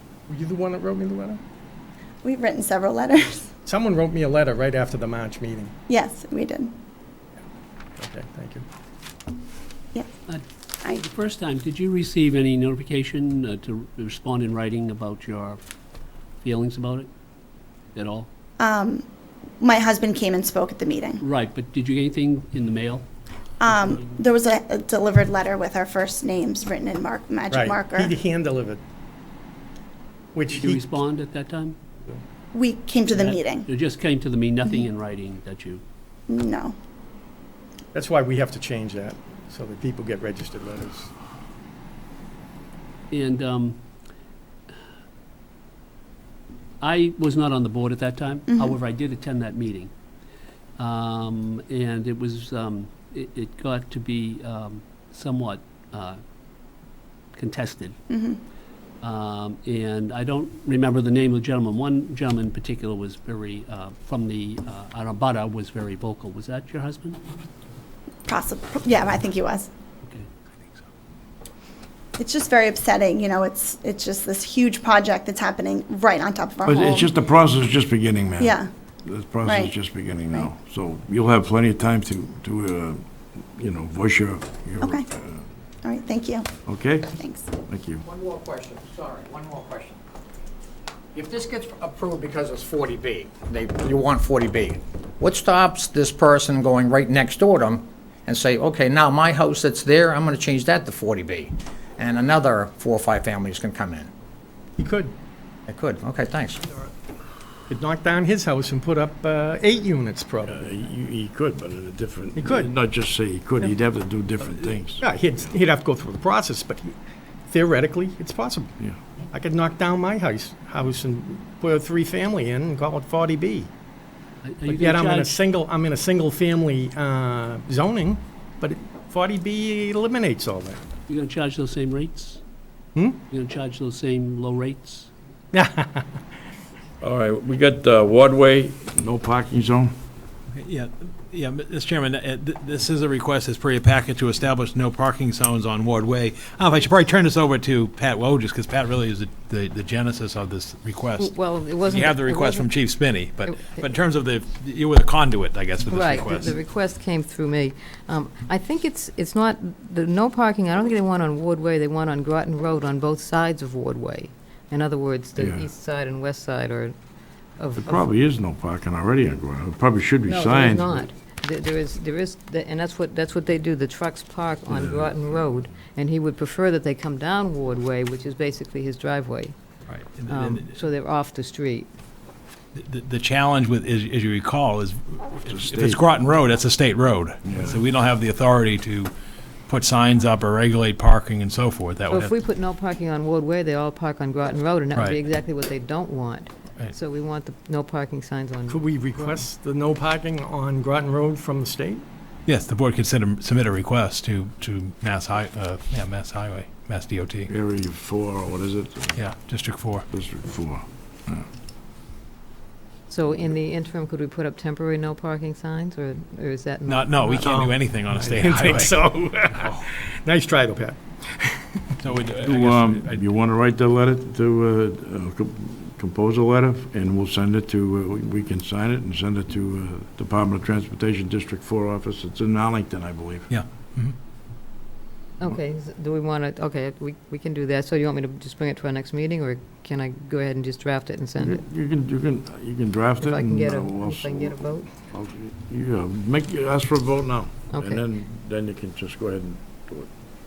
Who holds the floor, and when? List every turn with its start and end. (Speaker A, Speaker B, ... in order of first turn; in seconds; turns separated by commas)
Speaker A: 0.3-1.4, Speaker B: 2.2-3.5, Speaker A: 3.6-5.7, Speaker B: 5.9-6.7, Speaker A: 8.0-8.7, Speaker C: 10.3-15.6, Speaker C: 16.4-17.1, Speaker C: 17.9-18.3, Speaker B: 18.6-19.1, Speaker B: 19.6-21.2, Speaker C: 21.2-23.1, Speaker B: 23.6-28.1, Speaker C: 23.7-24.2, Speaker A: 27.5-28.8, Speaker A: 30.3-30.8, Speaker C: 30.5-31.8, Speaker B: 32.5-33.6, Speaker C: 33.1-35.8, Speaker B: 36.3-36.8, Speaker A: 37.9-41.1, Speaker C: 43.1-43.8, Speaker C: 46.8-49.9, Speaker C: 50.8-56.2, Speaker C: 57.4-58.0, Speaker B: 58.1-58.4, Speaker C: 59.0-67.2, Speaker B: 68.3-69.7, Speaker B: 72.2-77.1, Speaker D: 76.7-83.0, Speaker B: 78.4-78.7, Speaker B: 79.5-79.7, Speaker D: 83.5-85.4, Speaker B: 84.8-85.1, Speaker B: 85.8-86.5, Speaker D: 86.7-87.1, Speaker B: 87.2-87.5, Speaker D: 87.7-88.0, Speaker E: 88.0-90.0, Speaker E: 91.1-104.1, Speaker A: 104.8-105.1, Speaker E: 105.7-106.7, Speaker A: 107.7-110.6, Speaker D: 110.5-115.0, Speaker A: 112.3-112.7, Speaker A: 115.0-117.0, Speaker A: 117.5-118.7, Speaker A: 119.3-123.7, Speaker C: 124.4-125.4, Speaker A: 124.7-130.8, Speaker C: 131.1-132.4, Speaker A: 132.9-133.2, Speaker C: 133.3-135.1, Speaker A: 135.5-136.1, Speaker D: 137.0-139.9, Speaker F: 140.5-156.6, Speaker G: 151.2-152.7, Speaker G: 153.5-153.8, Speaker G: 155.9-166.9, Speaker D: 165.4-165.7, Speaker G: 167.6-168.1, Speaker D: 167.8-171.1, Speaker G: 170.3-179.6, Speaker D: 174.7-175.2, Speaker F: 179.9-180.8, Speaker G: 180.3-181.9, Speaker F: 182.8-189.1, Speaker D: 185.5-186.0, Speaker D: 187.4-187.8, Speaker F: 189.7-192.3, Speaker G: 192.1-199.3, Speaker A: 198.7-202.0, Speaker F: 202.5-207.5, Speaker D: 207.5-209.2, Speaker F: 209.2-210.1, Speaker D: 210.1-211.4, Speaker G: 213.1-217.7, Speaker F: 216.9-219.0, Speaker A: 217.4-221.8, Speaker F: 219.6-219.8, Speaker F: 222.0-223.2, Speaker D: 222.4-233.5, Speaker F: 233.5-234.2, Speaker G: 235.4-241.6, Speaker D: 241.4-250.1, Speaker G: 243.2-244.9, Speaker G: 247.7-248.0